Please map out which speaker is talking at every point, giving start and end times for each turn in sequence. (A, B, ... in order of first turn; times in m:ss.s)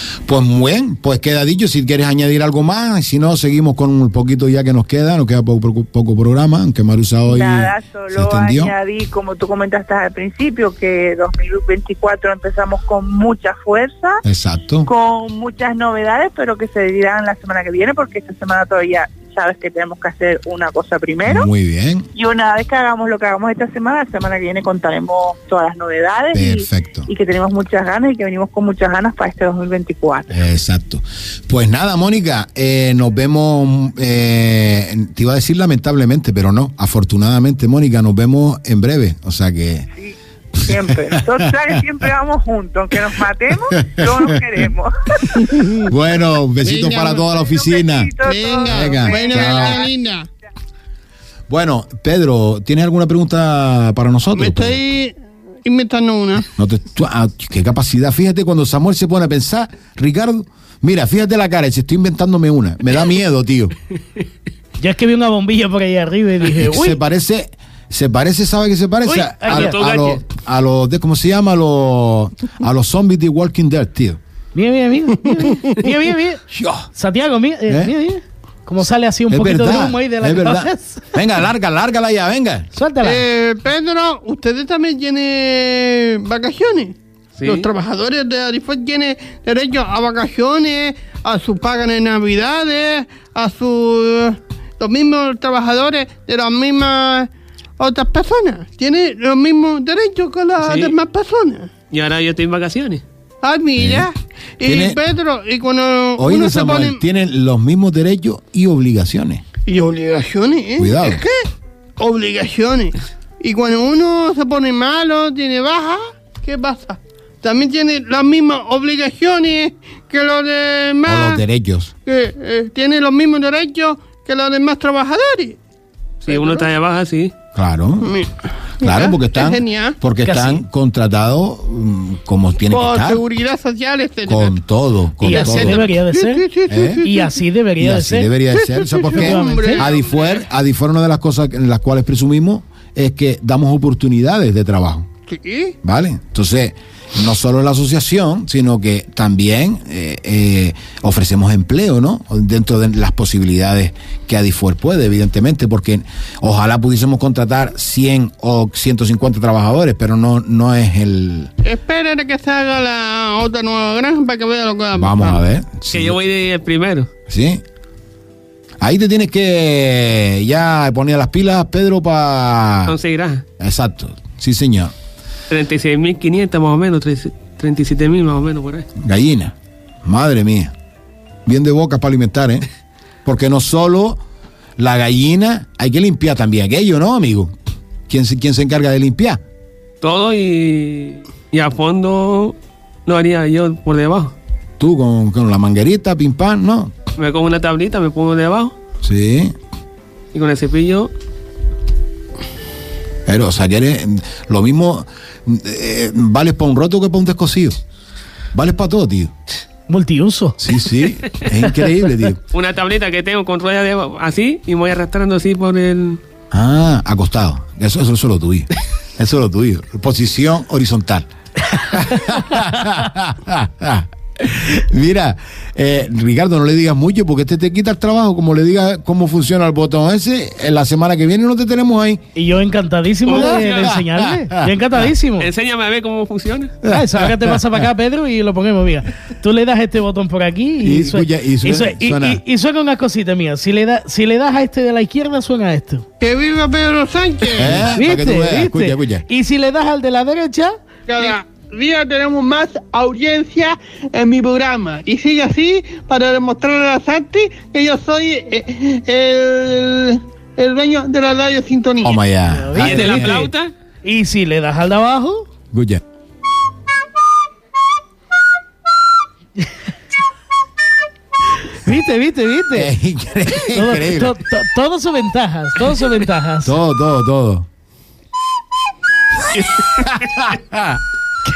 0:00.3-0:08.7 A
0:07.3-0:14.2 B
0:14.2-0:14.9 A
0:14.8-0:21.5 B
0:21.2-0:22.1 A
0:22.1-0:30.3 B
0:26.3-0:27.1 A
0:30.3-0:39.9 A
0:40.0-0:45.5 B
0:40.7-0:41.8 A
0:43.7-0:44.4 A
0:45.3-0:48.1 A
0:46.6-0:47.3 C
0:47.4-0:49.9 B
0:48.2-0:50.3 C
0:48.7-0:49.9 A
0:51.5-0:54.8 A
0:54.4-0:56.5 C
0:56.6-1:03.8 A
1:04.8-1:07.0 D
1:06.6-1:14.2 A
1:09.1-1:09.8 D
1:09.4-1:10.2 E
1:14.6-1:16.4 D
1:16.5-1:16.9 A
1:17.0-1:21.1 D
1:17.7-1:17.9 A
1:19.3-1:22.7 A
1:22.7-1:23.2 D
1:23.0-1:41.7 C
1:27.4-1:27.7 E
1:40.6-1:41.0 E
1:41.9-1:43.0 E
1:43.4-1:47.0 C
1:43.8-1:44.1 A
1:44.6-1:45.0 A
1:46.2-1:49.4 A
1:49.7-2:01.4 C
1:50.8-1:51.2 A
2:01.0-2:01.9 A
2:02.1-2:05.6 C
2:06.2-2:06.7 C
2:06.3-2:07.3 E
2:07.6-2:08.2 A
2:08.0-2:10.0 C
2:08.8-2:13.2 A
2:10.2-2:10.6 D
2:12.7-2:14.6 C
2:14.3-2:15.8 A
2:15.2-2:16.5 D
2:15.3-2:17.3 C
2:16.7-2:17.0 A
2:17.0-2:18.3 D
2:17.8-2:25.1 A
2:18.5-2:20.4 C
2:19.1-2:19.8 D
2:25.3-2:25.8 C
2:25.8-2:41.5 A
2:41.6-2:45.4 C
2:45.0-2:46.2 A
2:45.9-2:47.1 E
2:47.3-2:47.6 A
2:48.8-2:53.0 A
2:52.9-2:53.4 E
2:53.6-2:54.9 A
2:55.5-2:58.9 E
2:59.0-3:00.7 A
3:01.5-3:02.7 A
3:03.2-3:04.2 A
3:04.8-3:07.5 A
3:08.1-3:09.4 A
3:10.0-3:14.4 E
3:14.8-3:16.9 A
3:17.2-3:18.7 E
3:19.0-3:19.6 A
3:20.3-3:21.1 E
3:23.3-3:27.8 A
3:28.5-3:29.3 A
3:29.9-3:30.6 D
3:30.6-3:32.4 A
3:32.5-3:36.2 E
3:36.5-3:52.2 A
3:52.4-3:55.5 D
3:53.3-3:54.0 E
3:53.3-3:54.7 A
3:55.4-3:56.8 E
3:56.8-3:57.9 A
3:56.9-4:06.1 D
4:00.8-4:02.4 A
4:06.2-4:07.9 C
4:07.6-4:09.2 A
4:08.0-4:10.8 D
4:11.1-4:22.2 C
4:22.0-4:23.5 A
4:22.5-4:23.5 D
4:22.8-4:23.7 E
4:24.0-4:25.4 D
4:25.7-4:26.0 A
4:31.8-4:32.9 D
4:32.8-4:34.4 A
4:33.7-4:36.8 D
4:36.6-4:37.7 A
4:39.9-4:41.0 A